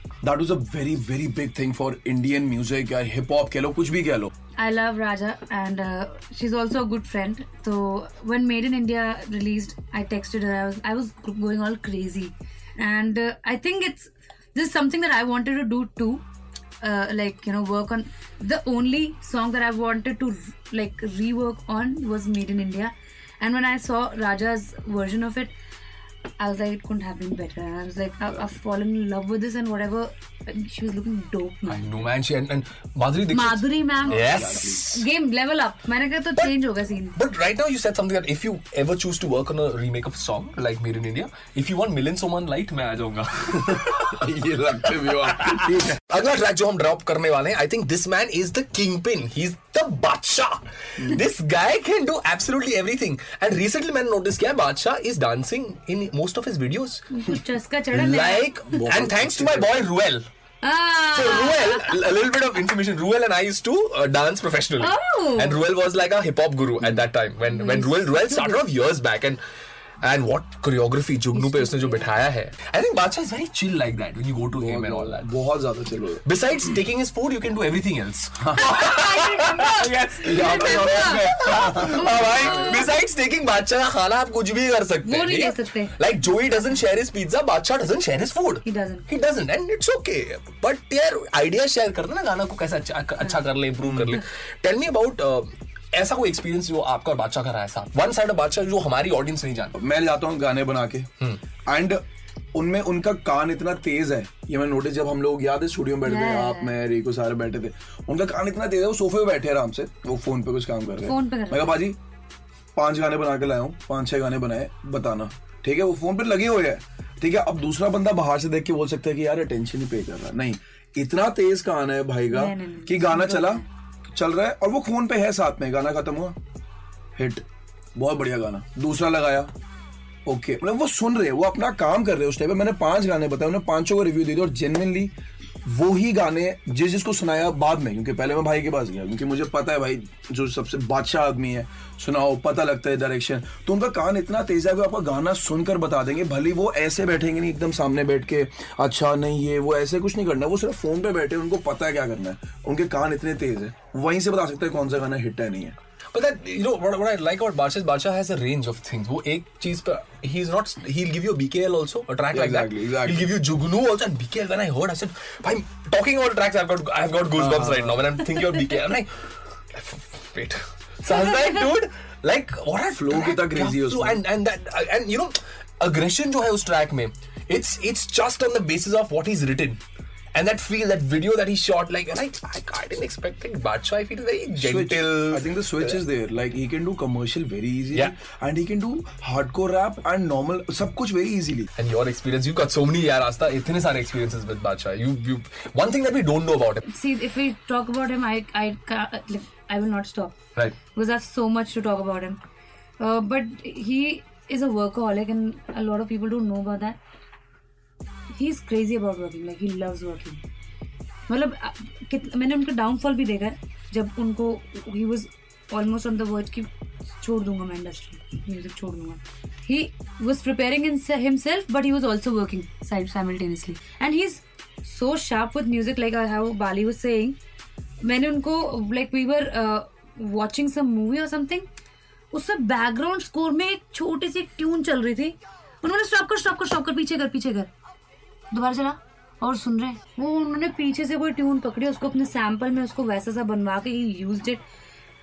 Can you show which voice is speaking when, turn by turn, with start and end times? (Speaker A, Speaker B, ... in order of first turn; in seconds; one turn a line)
Speaker A: 0.2-4.3
Speaker B: 4.6-16.2
Speaker B: 16.8-25.5
Speaker B: 26.4-31.9
Speaker C: 31.7-35.1
Speaker B: 33.3-37.2
Speaker A: 34.1-34.8
Speaker C: 37.1-44.2
Speaker A: 43.6-46.0
Speaker C: 45.2-57.0
Speaker B: 57.1-58.8
Speaker C: 57.9-60.2
Speaker A: 58.7-59.7
Speaker B: 60.6-61.9
Speaker C: 61.1-69.4
Speaker B: 64.8-65.6
Speaker B: 67.4-68.6
Speaker C: 70.0-75.3
Speaker B: 71.3-72.1
Speaker A: 74.6-76.2
Speaker C: 76.2-99.7
Speaker B: 78.6-82.8
Speaker A: 80.2-82.8
Speaker B: 85.0-86.0
Speaker B: 88.6-89.1
Speaker A: 93.8-94.1
Speaker A: 99.7-101.1
Speaker A: 101.7-102.0
Speaker A: 102.5-112.0
Speaker B: 106.0-106.8
Speaker B: 111.0-111.8
Speaker A: 112.8-126.4
Speaker B: 122.3-123.6
Speaker A: 127.2-127.4
Speaker A: 128.0-129.5
Speaker A: 130.2-135.1
Speaker A: 135.6-155.7
Speaker C: 156.1-169.1
Speaker A: 162.3-163.3
Speaker A: 167.3-168.2
Speaker C: 169.7-179.8
Speaker A: 172.9-174.2
Speaker C: 180.3-186.0
Speaker A: 184.6-191.7
Speaker C: 191.8-196.8
Speaker B: 196.8-200.4
Speaker B: 200.9-202.4
Speaker B: 203.0-207.0
Speaker B: 208.3-210.4
Speaker B: 211.3-227.4
Speaker B: 228.0-231.7
Speaker B: 232.3-237.7
Speaker B: 238.5-244.6